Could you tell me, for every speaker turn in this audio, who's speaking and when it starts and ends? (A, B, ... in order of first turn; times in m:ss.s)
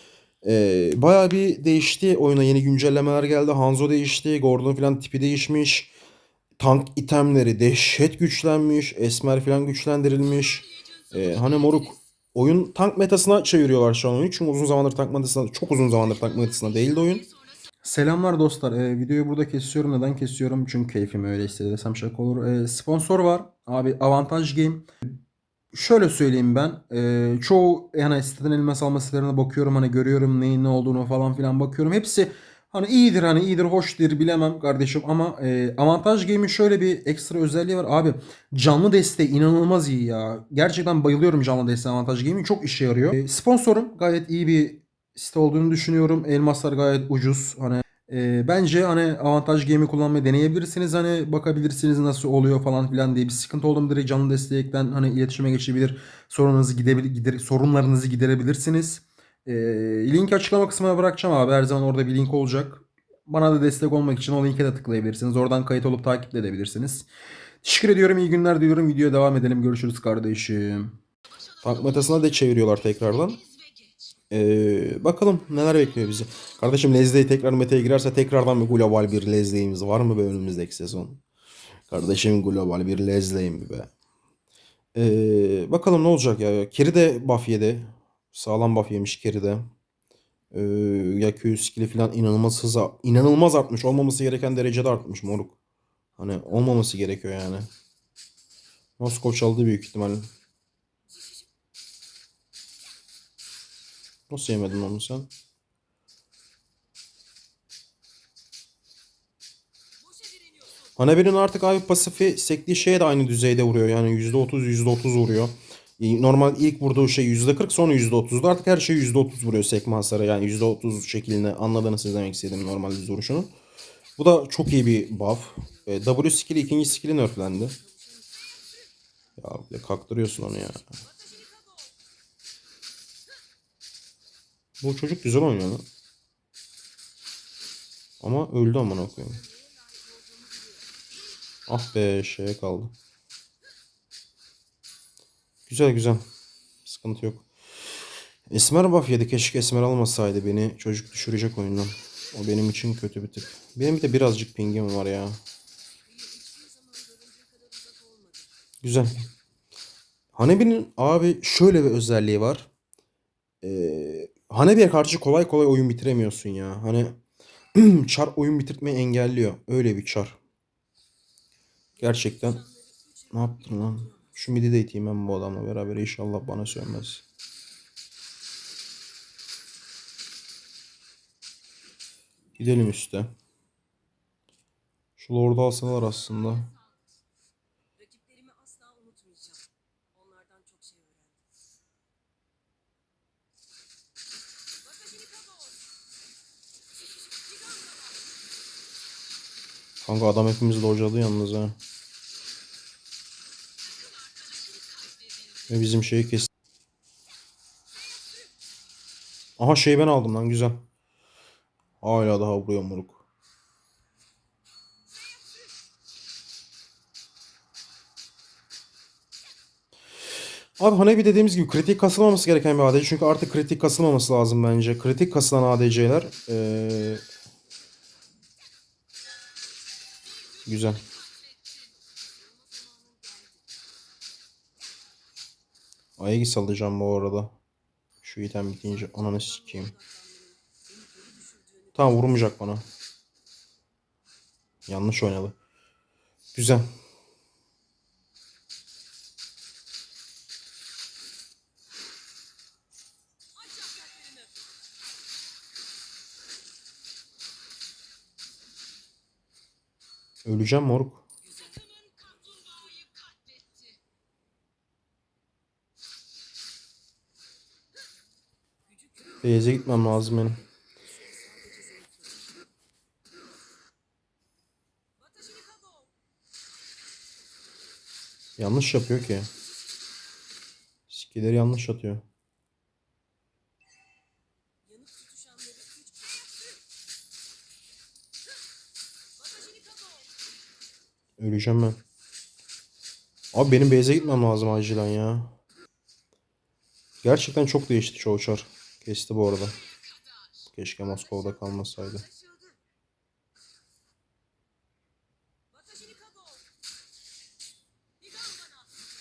0:00.4-0:05.9 A
0:06.6-0:17.3 A
0:17.8-0:24.9 A
0:25.7-1:07.1 A
1:07.6-1:11.0 A
1:11.6-1:13.4 A
1:14.3-1:21.2 A
1:21.9-1:23.9 A
1:24.9-1:29.7 A
1:30.5-1:35.6 A
1:36.2-1:37.7 A
1:39.0-1:40.3 A
1:44.3-1:45.3 A
1:51.0-2:03.5 A
2:04.2-2:07.8 A
2:09.4-2:11.0 A
2:14.8-2:15.9 A
2:18.2-2:19.4 A
2:19.8-2:20.8 B
2:21.7-2:22.9 A
2:25.7-2:26.2 A
2:26.8-2:27.4 A
2:28.5-2:35.4 A
2:36.2-2:38.4 B
2:38.8-2:39.3 A
2:40.3-2:42.7 A
2:43.6-2:47.2 A
2:47.7-2:50.4 A
2:52.0-2:52.6 A
2:53.3-2:57.2 A
3:02.6-3:03.3 A
3:05.2-3:06.7 A
3:08.0-3:09.6 B
3:10.1-3:11.4 B
3:15.0-3:15.7 B
3:17.6-3:18.0 B
3:20.0-3:21.8 A
3:25.7-3:26.5 A
3:29.6-3:30.8 A
3:32.0-3:33.2 A
3:40.8-3:47.2 A
3:50.6-3:51.0 A
3:52.5-3:53.6 B
3:56.2-3:57.5 A
3:58.2-3:59.9 A
4:01.2-4:01.5 B
4:01.9-4:02.8 A
4:04.9-4:05.5 A
4:06.5-4:06.9 A
4:20.4-4:21.2 A
4:22.5-4:23.1 B
4:29.4-4:30.6 A
4:31.2-4:32.2 B
4:35.3-4:36.1 B
4:38.6-4:39.5 A
4:41.1-4:42.2 A
4:45.0-4:46.4 B
4:49.6-4:50.2 B
4:51.4-4:52.0 A
4:53.5-4:55.5 A
4:57.2-4:59.8 A
5:00.7-5:02.2 A